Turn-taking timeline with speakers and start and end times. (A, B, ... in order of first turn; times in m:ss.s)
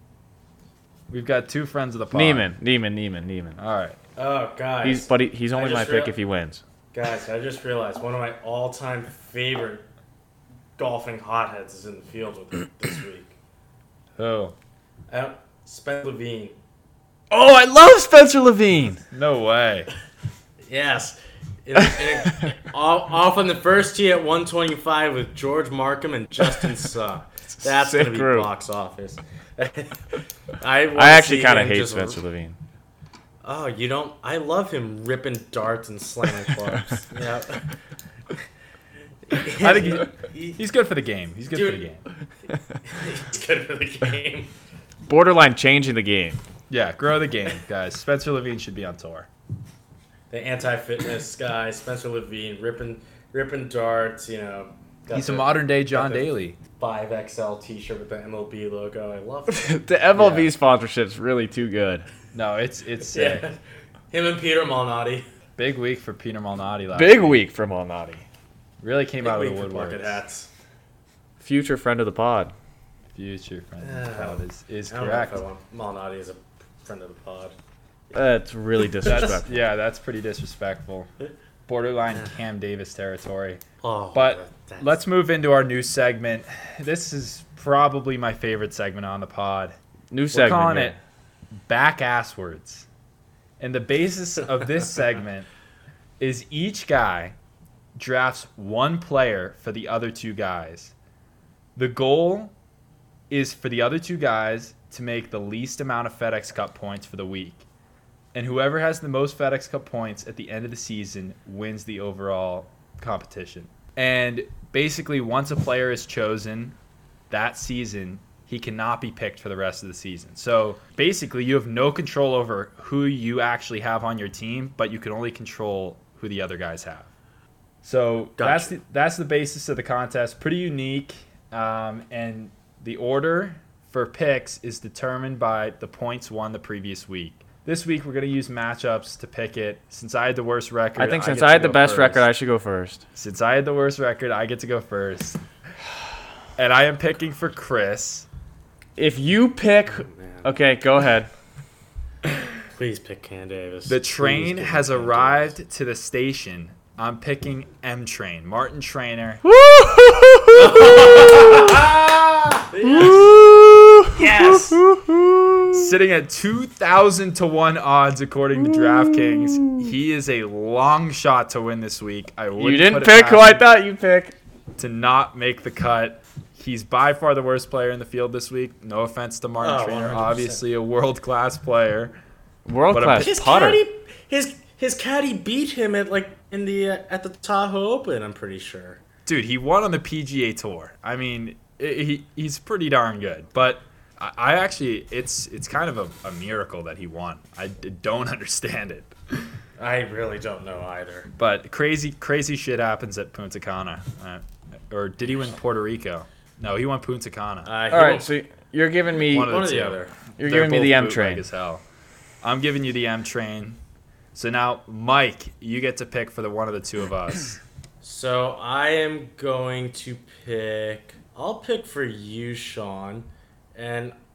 0:01.1-0:02.5 A
0:02.1-0:03.6 B
0:03.6-0:04.0 A
0:04.2-0:06.2 C
0:04.8-0:06.6 B
0:06.9-0:09.8 C
0:10.8-0:13.3 C
0:14.2-0:14.6 A
0:15.1-0:16.6 C
0:17.3-0:19.0 B
0:19.1-0:19.9 A
0:20.7-0:30.0 C
0:22.2-0:22.5 B
0:27.6-0:28.5 B
0:30.6-0:32.2 C
0:31.0-0:32.6 B
0:33.4-0:37.7 C
0:39.3-0:40.6 C
0:39.6-0:42.0 A
0:41.5-0:41.8 C
0:42.8-0:44.5 C
0:45.1-0:46.4 B
0:46.7-0:49.3 A
0:50.3-0:59.8 C
0:55.1-0:56.6 A
0:59.5-1:02.1 B
1:00.2-1:00.5 A
1:02.3-1:03.4 A
1:03.1-1:03.6 C
1:04.1-1:05.3 C
1:05.6-1:07.4 A
1:06.9-1:08.2 B
1:08.8-1:10.2 A
1:09.2-1:10.5 C
1:11.4-1:12.5 B
1:13.1-1:15.4 A
1:13.8-1:17.6 C
1:18.1-1:19.6 B
1:19.0-1:21.1 A
1:21.7-1:23.6 A
1:23.8-1:25.0 C
1:24.1-1:29.8 A
1:30.1-1:31.0 B
1:30.3-1:31.0 A
1:31.6-1:32.9 A
1:33.6-1:35.5 A
1:36.2-1:37.4 A
1:38.0-1:40.9 A
1:41.8-1:42.5 A
1:43.3-1:47.6 A
1:48.3-1:56.8 A
1:57.3-2:07.1 A
2:07.8-2:22.3 A
2:08.4-2:08.7 C
2:21.0-2:23.0 B
2:23.2-2:25.4 A
2:26.6-2:28.3 A
2:29.0-2:31.3 B
2:29.9-2:30.5 C
2:32.7-2:35.5 C
2:33.9-2:39.4 A
2:39.4-2:41.8 B
2:40.5-2:41.9 C
2:42.6-2:43.3 C
2:42.9-2:45.8 B
2:44.2-2:44.8 C
2:45.7-2:53.6 A
2:48.6-2:49.9 B
2:52.6-2:54.4 B
2:54.8-3:02.2 A
2:59.6-3:00.6 C
3:02.7-3:03.8 B
3:02.9-3:03.3 A
3:03.2-3:09.0 C
3:09.3-3:19.5 A
3:19.8-3:21.3 C
3:21.4-3:27.7 A
3:27.6-3:28.3 C
3:27.9-3:29.6 B
3:29.2-3:31.8 A
3:29.3-3:30.1 C
3:30.4-3:31.4 B
3:32.4-3:33.8 A
3:34.3-3:37.6 A
3:38.0-3:44.2 C